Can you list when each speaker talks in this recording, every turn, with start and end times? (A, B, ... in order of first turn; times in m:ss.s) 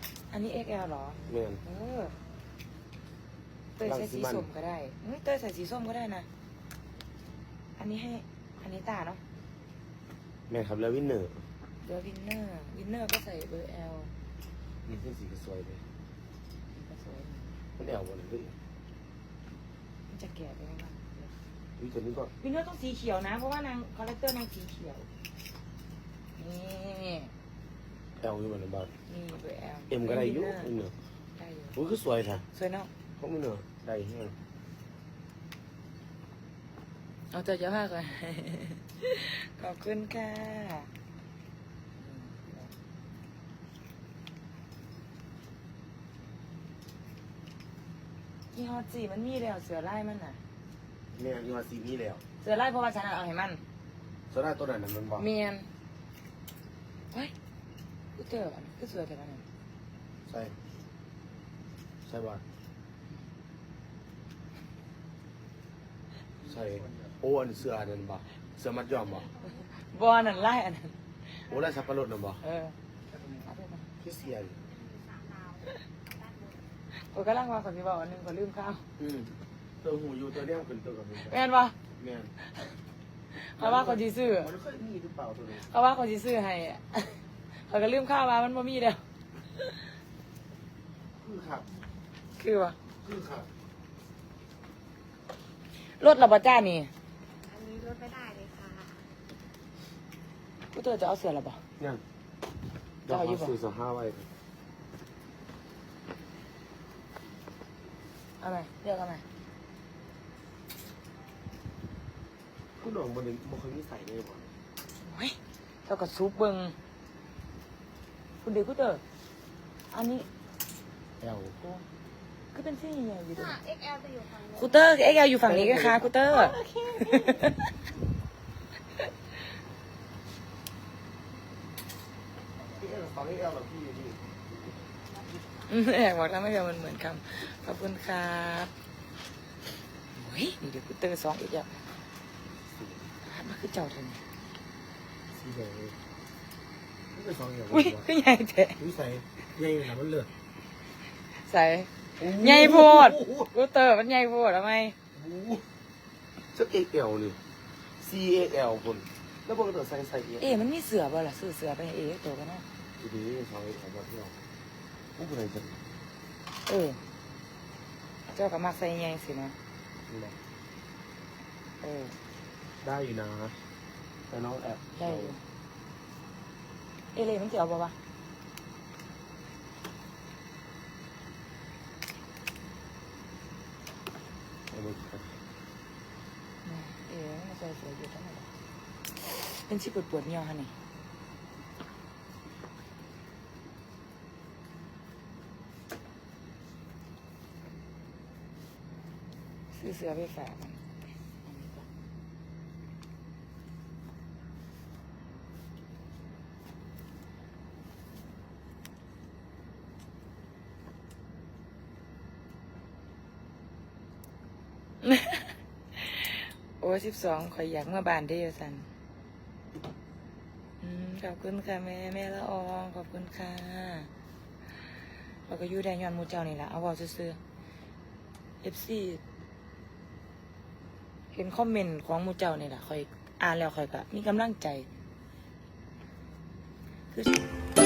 0:00.3-0:02.1 A
0:01.3-0:01.6 B
0:03.8-0:06.3 A
0:03.8-0:04.5 B
0:07.8-0:09.2 A
0:10.5-0:11.5 B
0:11.8-0:14.1 A
0:14.8-0:15.8 B
0:16.7-0:17.6 A
0:17.8-0:18.6 B
0:20.1-0:21.3 A
0:21.8-0:22.3 B
0:22.4-0:25.1 A
0:26.4-0:27.3 A
0:28.2-0:28.9 B
0:29.1-0:30.7 A
0:29.9-0:30.9 B
0:31.4-0:31.7 A
0:31.7-0:32.4 B
0:32.5-0:32.9 A
0:33.2-0:34.4 B
0:37.3-0:40.9 A
0:42.0-0:42.7 A
0:48.5-0:50.4 A
0:51.1-0:52.2 B
0:52.4-0:53.6 A
0:54.3-0:55.3 B
0:55.2-0:55.7 A
0:58.2-0:59.4 A
1:00.3-1:00.6 B
1:02.0-1:02.4 B
1:06.4-1:09.3 B
1:09.7-1:11.0 A
1:11.5-1:12.4 B
1:12.4-1:12.8 A
1:13.3-1:13.9 A
1:14.0-1:14.6 B
1:15.0-1:15.6 C
1:17.1-1:18.8 A
1:19.0-1:21.4 B
1:21.2-1:21.8 A
1:21.9-1:22.3 B
1:23.3-1:24.5 A
1:23.6-1:25.7 B
1:25.5-1:29.0 A
1:31.2-1:31.7 B
1:32.4-1:32.8 A
1:33.0-1:33.5 B
1:36.0-1:36.9 A
1:37.5-1:39.0 C
1:40.7-1:41.6 A
1:43.0-1:44.3 B
1:43.1-1:43.5 A
1:48.4-1:49.2 A
1:52.8-1:54.5 B
1:55.0-1:56.8 A
1:58.4-1:59.0 A
1:59.9-2:00.3 A
2:01.2-2:01.8 B
2:02.5-2:03.6 A
2:03.5-2:04.7 C
2:04.5-2:06.5 A
2:05.4-2:06.1 B
2:06.4-2:07.4 C
2:07.1-2:07.6 A
2:12.7-2:14.2 B
2:15.7-2:18.7 A
2:20.1-2:21.7 A
2:22.7-2:23.1 B
2:23.2-2:24.2 A
2:25.3-2:26.0 B
2:27.1-2:28.0 B
2:27.7-2:28.8 A
2:28.8-2:30.3 B
2:31.3-2:35.0 A
2:32.2-2:33.5 B
2:35.1-2:35.6 B
2:36.4-2:37.4 B
2:38.0-2:40.5 B
2:40.4-2:42.6 A
2:43.0-2:44.3 B
2:45.2-2:45.8 B
2:46.6-2:47.0 A
2:48.3-2:49.6 A
2:50.1-2:50.4 B
2:51.8-2:52.2 A
2:52.8-2:53.6 B
2:54.3-2:55.4 B
2:55.0-2:55.4 A
2:57.1-2:58.0 A
3:04.7-3:05.4 B
3:06.6-3:08.5 A
3:09.1-3:10.7 A
3:19.7-3:20.8 A
3:21.4-3:21.9 A
3:35.0-3:38.9 A
3:40.8-3:44.1 A
3:45.5-3:47.4 A
3:48.6-3:49.2 A
3:51.3-3:54.9 A